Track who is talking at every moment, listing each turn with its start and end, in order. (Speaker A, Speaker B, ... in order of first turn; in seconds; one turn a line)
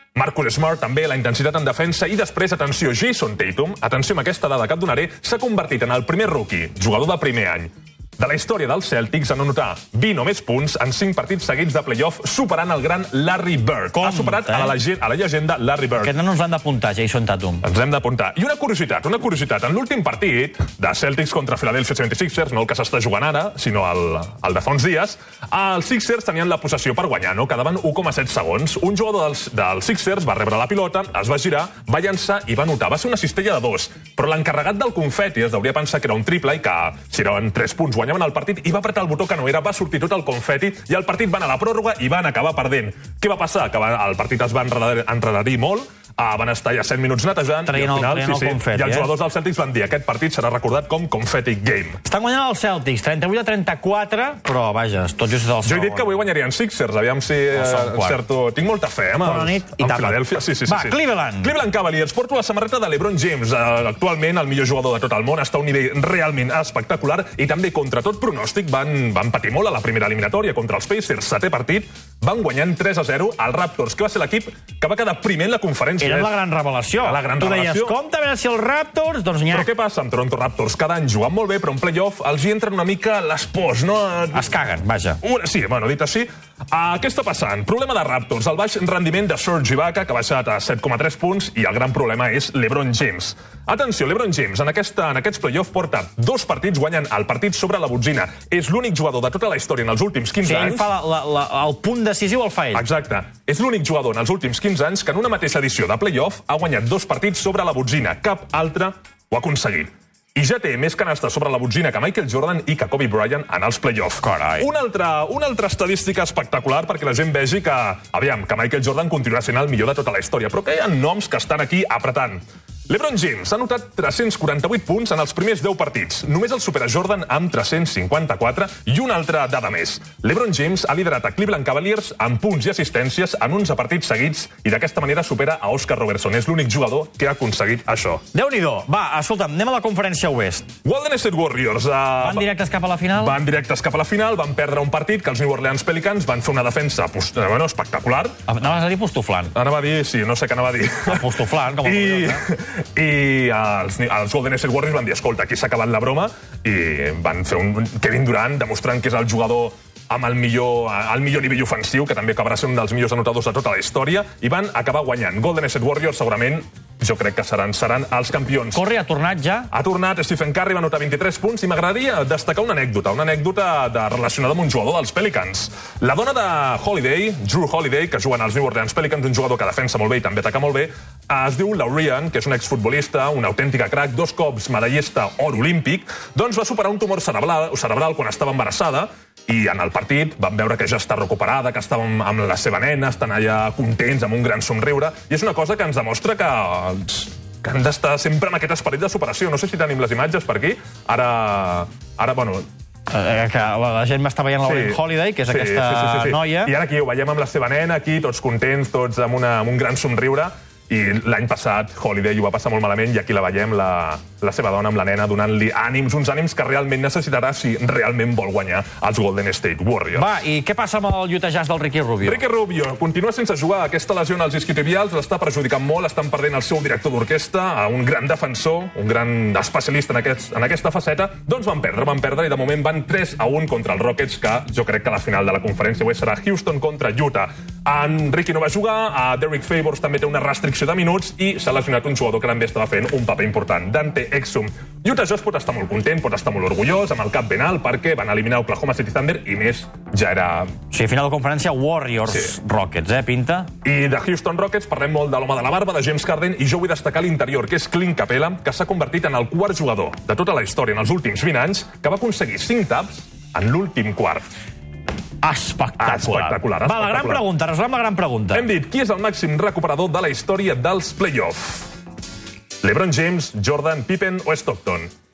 Speaker A: 0.1-16.1
Speaker B: 13.9-14.8
Speaker B: 16.0-17.6
Speaker A: 17.6-52.0
Speaker B: 47.6-49.1
Speaker B: 52.0-56.2
Speaker A: 55.6-76.4
Speaker B: 57.5-58.2
Speaker B: 59.2-61.5
Speaker B: 76.0-79.7
Speaker A: 77.0-78.0
Speaker A: 79.5-84.7
Speaker B: 84.3-85.2
Speaker A: 85.2-100.9
Speaker B: 100.4-102.8
Speaker A: 102.7-138.2
Speaker B: 114.2-114.7
Speaker B: 138.3-140.7
Speaker A: 140.8-142.5
Speaker B: 142.2-143.3
Speaker A: 143.1-148.4
Speaker B: 148.5-149.5
Speaker A: 149.5-151.3
Speaker B: 151.1-152.4
Speaker A: 151.8-168.8
Speaker B: 168.7-169.7
Speaker A: 169.7-202.7
Speaker B: 203.1-206.7
Speaker A: 204.6-220.3
Speaker B: 220.1-222.4
Speaker A: 222.2-250.7
Speaker B: 250.9-253.7
Speaker A: 253.8-264.4
Speaker B: 265.4-268.7
Speaker A: 266.0-267.4
Speaker A: 268.5-271.9
Speaker A: 272.8-275.1